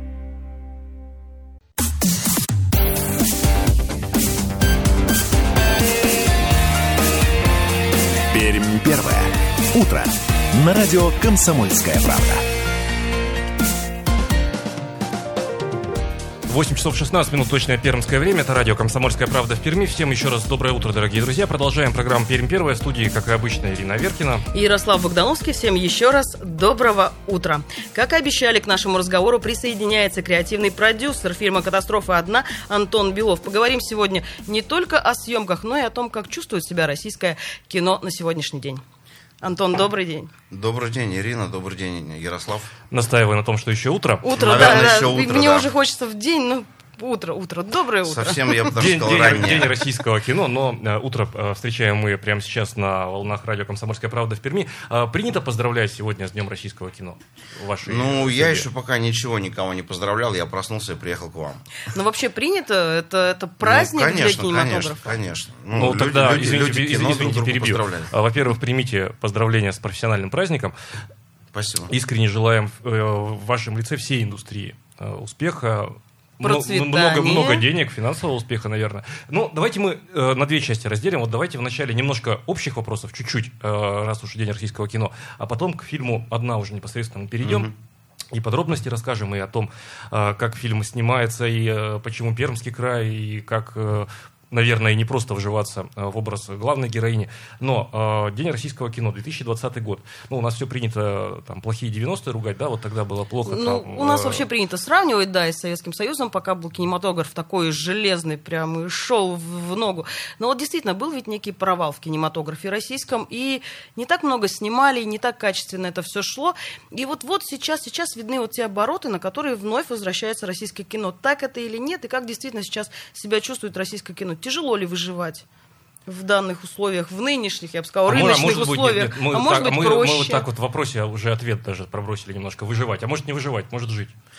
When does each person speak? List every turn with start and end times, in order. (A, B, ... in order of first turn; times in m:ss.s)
0:08.3-0:12.4 A
0:16.5-0:24.4 B
0:24.5-0:38.8 C
0:39.4-0:40.3 C
0:40.5-0:42.7 D
0:42.9-0:44.9 B
0:44.2-0:48.7 C
0:44.3-0:45.7 D
0:48.0-0:49.8 D
0:48.7-0:58.7 B
0:57.8-1:01.6 D
1:01.9-1:05.1 C
1:03.6-1:08.1 D
1:05.7-1:10.7 B
1:11.5-1:11.9 D
1:11.9-1:27.7 B
1:16.4-1:17.6 C
1:27.4-1:27.7 D
1:28.3-1:44.5 B
1:43.4-2:05.4 C
2:06.1-2:10.4 C
2:08.1-2:14.1 B